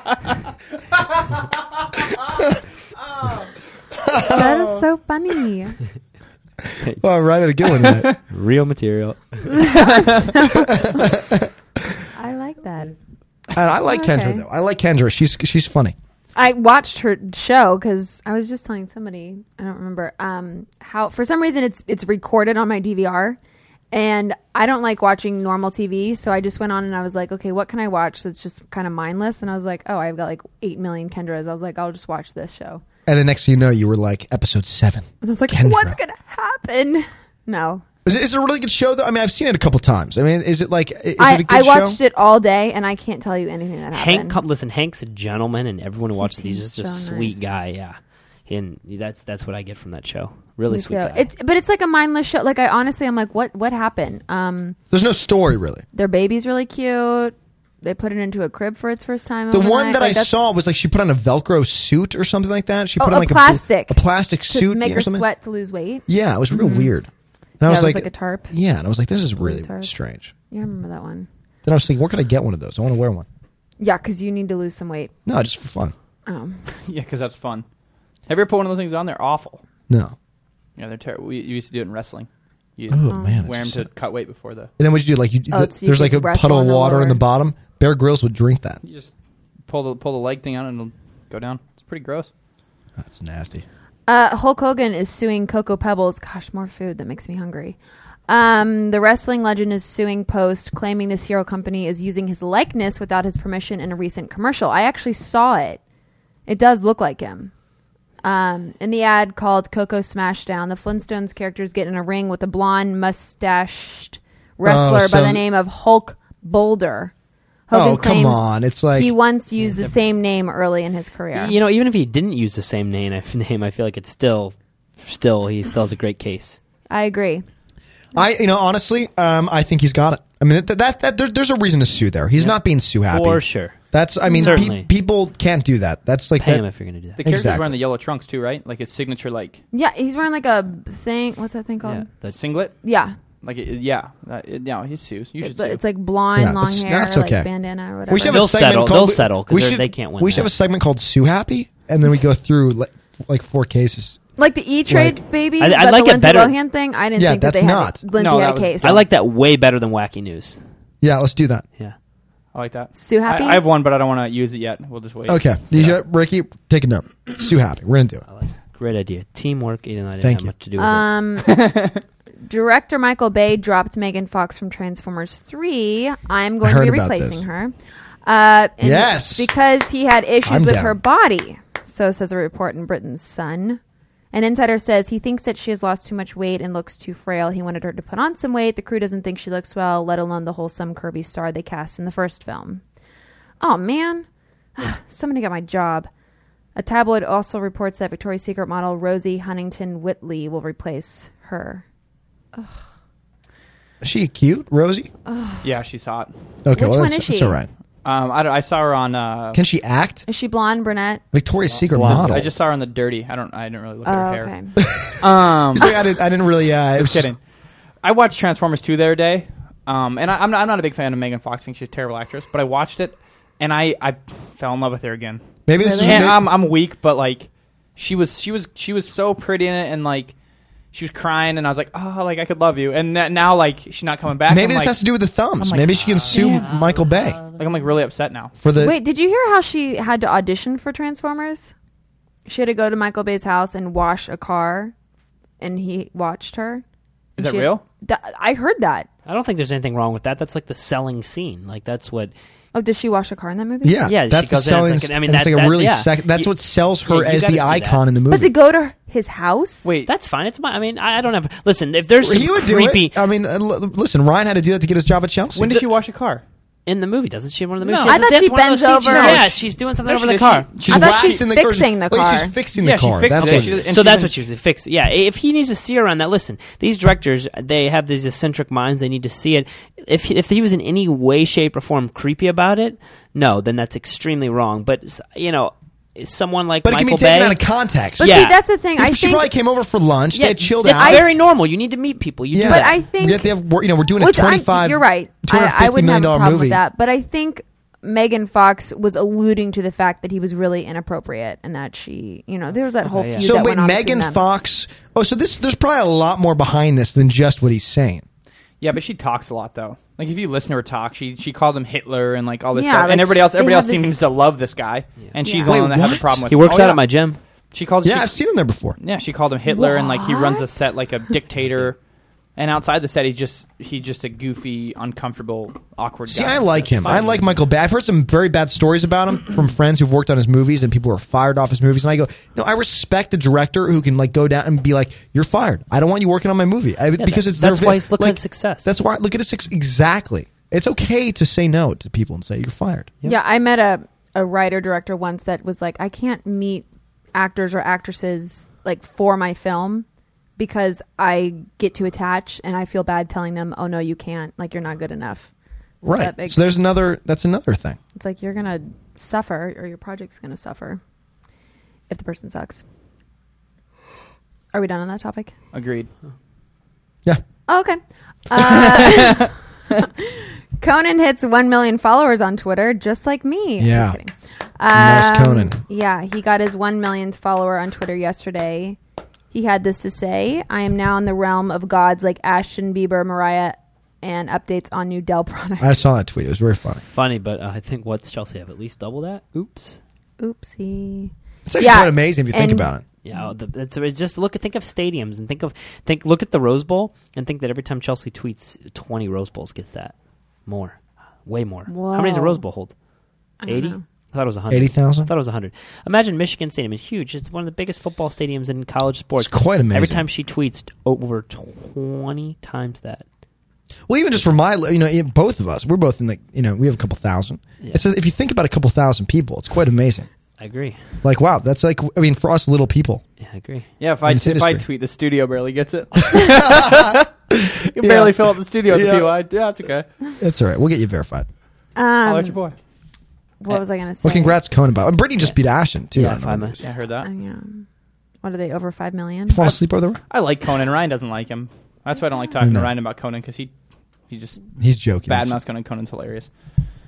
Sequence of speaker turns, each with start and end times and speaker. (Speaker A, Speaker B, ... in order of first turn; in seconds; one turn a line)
Speaker A: 4.0-4.5
Speaker B: 4.2-5.8
Speaker A: 7.0-8.1
Speaker C: 7.7-8.2
Speaker D: 8.3-9.7
Speaker B: 9.5-11.2
Speaker C: 9.8-10.3
Speaker A: 10.4-12.0
Speaker B: 12.2-12.9
Speaker A: 13.5-15.9
Speaker B: 13.8-14.4
Speaker B: 16.3-23.4
Speaker B: 23.9-32.8
Speaker A: 33.0-36.0
Speaker B: 35.2-37.8
Speaker A: 38.0-42.0
Speaker B: 41.2-44.4
Speaker D: 43.9-51.3
Speaker B: 46.2-47.5
Speaker B: 50.7-54.8
Speaker A: 54.9-55.8
Speaker B: 55.9-60.4
Speaker A: 59.5-65.2
Speaker B: 63.0-66.9
Speaker A: 66.1-67.1
Speaker A: 67.6-70.3
Speaker B: 67.6-68.5
Speaker B: 69.4-69.9
Speaker B: 70.5-71.3
Speaker A: 71.6-73.3
Speaker B: 73.8-75.1
Speaker A: 75.2-75.9
Speaker B: 76.3-76.7
Speaker C: 76.7-77.7
Speaker C: 78.3-79.6
Speaker A: 79.9-80.1
Speaker C: 80.8-84.7
Speaker A: 82.9-83.9
Speaker B: 83.1-83.5
Speaker A: 84.8-88.8
Speaker B: 85.5-87.2
Speaker C: 88.8-89.1
Speaker C: 89.7-92.3
Speaker A: 93.0-93.6
Speaker B: 94.1-97.8
Speaker B: 98.3-105.8
Speaker B: 106.5-107.5
Speaker B: 108.2-117.1
Speaker A: 114.6-115.4
Speaker B: 117.7-121.5
Speaker A: 117.7-119.1
Speaker D: 119.6-119.9
Speaker D: 121.3-126.6
Speaker B: 126.9-127.5
Speaker A: 128.1-136.6
Speaker D: 132.4-133.8
Speaker B: 134.3-134.7
Speaker D: 134.3-134.9
Speaker D: 136.4-137.2
Speaker C: 137.2-139.6
Speaker A: 137.2-137.8
Speaker B: 139.7-142.1
Speaker D: 141.8-142.4
Speaker C: 142.3-142.7
Speaker B: 142.8-143.1
Speaker C: 143.4-145.8
Speaker B: 145.4-148.4
Speaker A: 146.3-147.5
Speaker A: 148.1-154.2
Speaker D: 148.2-150.5
Speaker B: 154.4-159.0
Speaker A: 154.9-155.2
Speaker D: 155.6-156.5
Speaker A: 157.2-158.0
Speaker C: 158.1-159.1
Speaker D: 158.8-160.6
Speaker A: 161.0-161.6
Speaker C: 162.5-165.9
Speaker B: 162.9-163.7
Speaker A: 165.3-168.2
Speaker D: 165.7-166.0
Speaker D: 168.3-171.1
Speaker A: 170.2-170.5
Speaker B: 170.8-171.6
Speaker C: 171.4-172.0
Speaker B: 172.4-183.8
Speaker A: 176.6-177.4
Speaker A: 178.8-179.5
Speaker A: 180.4-181.0
Speaker B: 184.3-192.8
Speaker B: 193.6-196.1
Speaker B: 196.8-201.8
Speaker A: 204.0-205.1
Speaker B: 205.2-205.7
Speaker C: 205.6-206.3
Speaker A: 206.6-207.7
Speaker B: 206.7-207.6
Speaker C: 208.0-209.6
Speaker A: 209.5-210.2
Speaker B: 210.3-211.2
Speaker A: 211.3-212.5
Speaker C: 211.9-214.5
Speaker D: 211.9-212.5
Speaker B: 214.0-214.8
Speaker A: 214.8-217.3
Speaker C: 215.2-215.9
Speaker C: 216.9-217.4
Speaker C: 218.0-225.4
Speaker A: 225.7-226.5
Speaker B: 225.8-226.4
Speaker C: 226.0-230.3
Speaker C: 230.9-234.9
Speaker A: 234.4-237.4
Speaker C: 235.6-236.7
Speaker D: 236.3-237.6
Speaker C: 237.5-238.5
Speaker A: 238.6-238.9
Speaker B: 238.7-241.7
Speaker B: 242.4-244.9
Speaker B: 245.6-246.8
Speaker C: 247.4-247.8
Speaker B: 247.4-249.1
Speaker D: 249.2-252.3
Speaker B: 252.7-254.1
Speaker A: 253.8-258.5
Speaker D: 254.0-256.5
Speaker D: 257.0-258.0
Speaker B: 258.3-259.9
Speaker C: 259.8-260.1
Speaker D: 260.0-263.2
Speaker A: 262.2-265.9
Speaker C: 265.5-266.4
Speaker D: 266.9-270.7
Speaker C: 267.8-268.2
Speaker B: 268.1-269.4
Speaker C: 269.1-271.4
Speaker A: 270.8-273.8
Speaker B: 270.9-272.6
Speaker C: 272.7-274.3
Speaker D: 273.4-287.6
Speaker A: 286.8-288.4
Speaker D: 288.2-288.6
Speaker B: 288.2-289.5
Speaker A: 289.0-291.2
Speaker D: 290.3-293.0
Speaker B: 290.8-291.3
Speaker A: 292.5-296.8
Speaker B: 292.6-293.5
Speaker B: 294.2-304.4
Speaker D: 303.0-303.5
Speaker A: 303.4-308.2
Speaker C: 308.8-317.1
Speaker B: 312.7-314.3
Speaker B: 315.4-315.9
Speaker A: 315.6-316.4
Speaker D: 316.5-317.4
Speaker C: 317.7-318.4
Speaker A: 318.0-319.0
Speaker C: 319.0-321.9
Speaker B: 319.6-320.8
Speaker D: 321.6-321.9
Speaker C: 322.6-327.6
Speaker A: 326.3-343.1
Speaker D: 337.2-338.9
Speaker B: 343.2-350.1
Speaker B: 350.6-355.5
Speaker B: 356.0-356.7
Speaker A: 356.0-358.0
Speaker B: 358.1-361.0
Speaker B: 362.1-362.8
Speaker B: 364.7-365.5
Speaker C: 365.7-366.1
Speaker B: 367.7-379.0
Speaker A: 368.6-369.1
Speaker A: 373.8-374.2
Speaker A: 374.9-375.8
Speaker B: 379.5-386.1
Speaker A: 385.8-387.0
Speaker D: 387.1-390.0
Speaker B: 390.4-393.5
Speaker A: 391.7-393.0
Speaker D: 393.2-400.1
Speaker D: 400.6-402.9
Speaker B: 401.9-402.6
Speaker B: 403.6-404.0
Speaker D: 403.6-413.2
Speaker A: 404.7-405.3
Speaker A: 409.4-410.2
Speaker A: 414.1-420.3
Speaker D: 417.8-418.1
Speaker D: 420.6-421.0
Speaker A: 421.2-423.2
Speaker D: 423.4-423.9
Speaker C: 424.0-427.3
Speaker A: 424.2-424.9
Speaker A: 426.2-429.4
Speaker C: 427.9-430.1
Speaker A: 430.4-431.5
Speaker B: 431.9-432.6
Speaker C: 432.2-432.8
Speaker B: 433.6-434.6
Speaker A: 434.2-436.8
Speaker D: 436.1-436.8
Speaker C: 436.8-437.3
Speaker B: 437.2-437.9
Speaker B: 438.4-439.6
Speaker A: 439.5-440.2
Speaker C: 440.3-443.7
Speaker B: 442.2-442.5
Speaker A: 442.6-442.9
Speaker C: 444.3-446.5
Speaker A: 444.8-445.6